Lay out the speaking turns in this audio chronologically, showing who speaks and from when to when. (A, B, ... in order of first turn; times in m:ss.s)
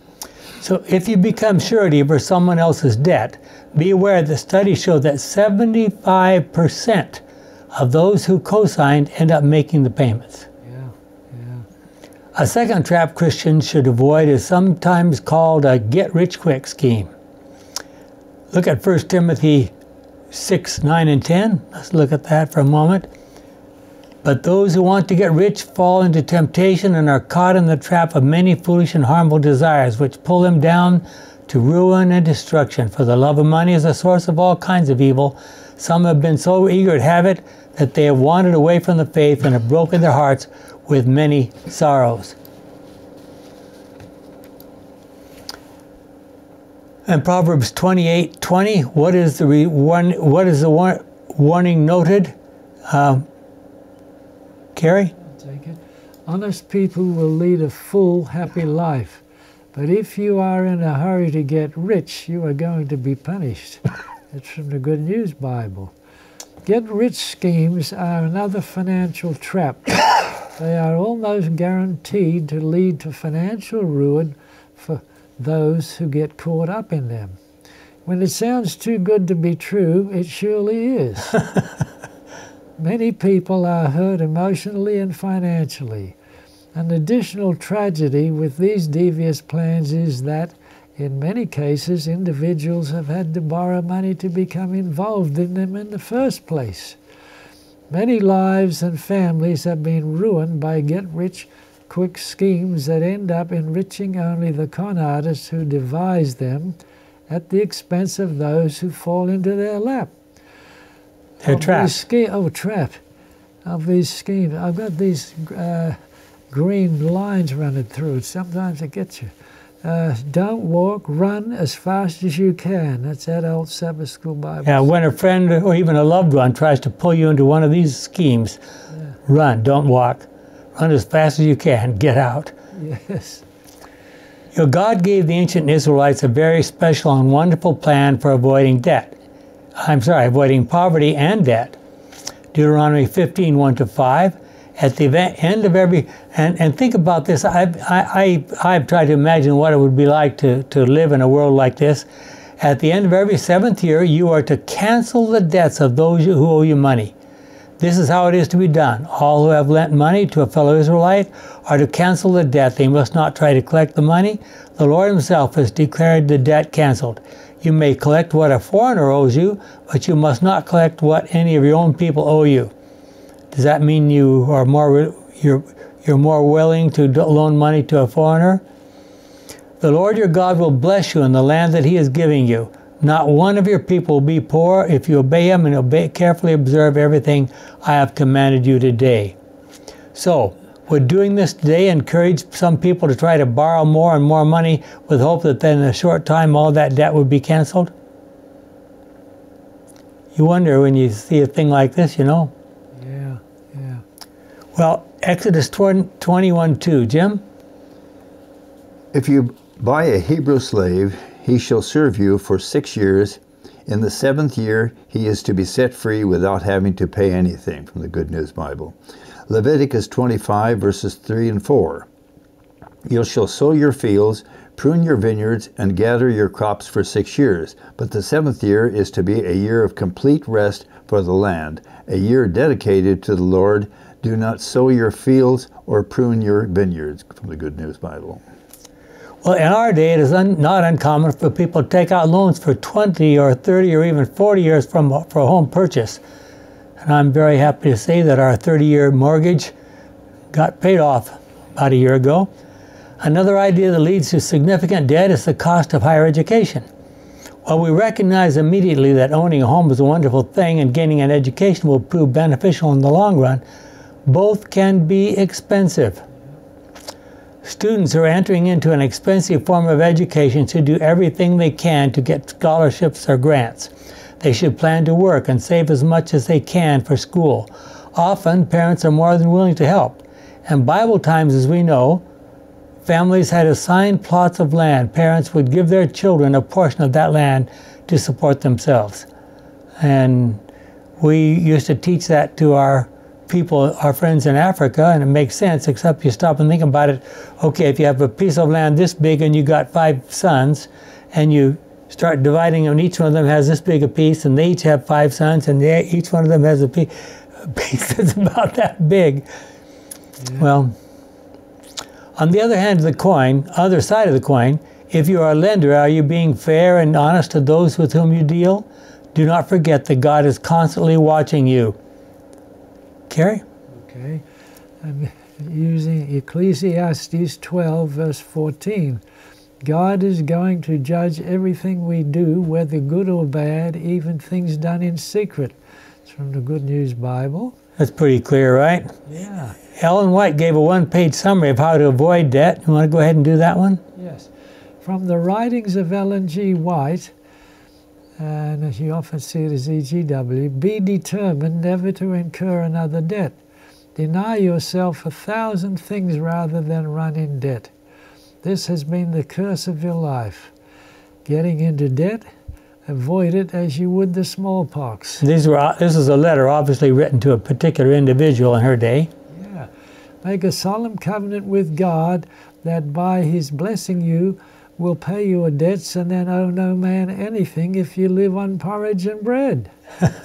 0:00.6-0:07.2 A
0:07.7-0:10.5 A
0:10.6-0:11.7 B
0:12.4-0:17.1 A
0:18.5-0:19.7 A
0:20.3-0:23.1 A
0:24.2-0:42.4 A
0:47.1-0:52.3 A
0:52.9-0:53.3 A
0:54.8-0:55.1 A
0:55.2-0:59.2 B
0:59.7-1:05.9 B
1:06.6-1:17.4 B
1:18.1-1:21.4 B
1:22.8-1:26.2 B
1:26.7-1:37.0 B
1:37.9-1:46.8 B
1:47.3-1:50.1 B
1:51.4-1:52.0 A
1:51.5-1:53.0 B
1:53.6-1:56.0 B
1:56.5-2:04.9 B
2:04.6-2:08.6 A
2:09.3-2:12.5 A
2:12.7-2:13.4 B
2:14.5-2:19.2 A
2:19.8-2:21.8 A
2:22.5-2:32.1 A
2:32.6-2:37.1 A
2:37.8-2:52.7 A
2:53.5-2:58.6 A
2:59.8-3:09.4 A
3:10.1-3:17.9 A
3:20.3-3:22.5 A
3:23.0-3:24.0 B
3:24.8-3:27.4 A
3:29.1-3:39.0 C
3:39.5-3:42.1 C
3:43.1-3:58.4 C
3:59.4-4:06.2 A
4:07.0-4:09.7 A
4:10.5-4:12.5 A
4:13.2-4:16.8 A
4:17.7-4:23.6 A
4:24.3-4:26.2 A
4:27.6-4:42.2 A
4:43.1-4:49.3 A
4:50.0-4:50.6 A
4:51.2-5:09.4 A
5:10.4-5:10.6 B
5:10.6-5:11.0 A
5:12.4-5:22.0 A
5:23.3-5:23.6 A
5:23.9-5:24.4 B
5:25.0-5:29.2 B
5:29.8-5:37.8 B
5:38.0-5:39.1 A
5:39.3-5:39.8 B
5:40.0-5:44.0 A
5:44.2-5:44.5 B
5:45.0-5:47.3 B
5:48.4-5:53.6 B
5:54.2-5:57.9 B
5:58.6-6:00.7 B
6:01.5-6:02.4 B
6:03.1-6:05.4 B
6:05.4-6:09.3 A
6:09.5-6:09.9 B
6:10.4-6:19.9 B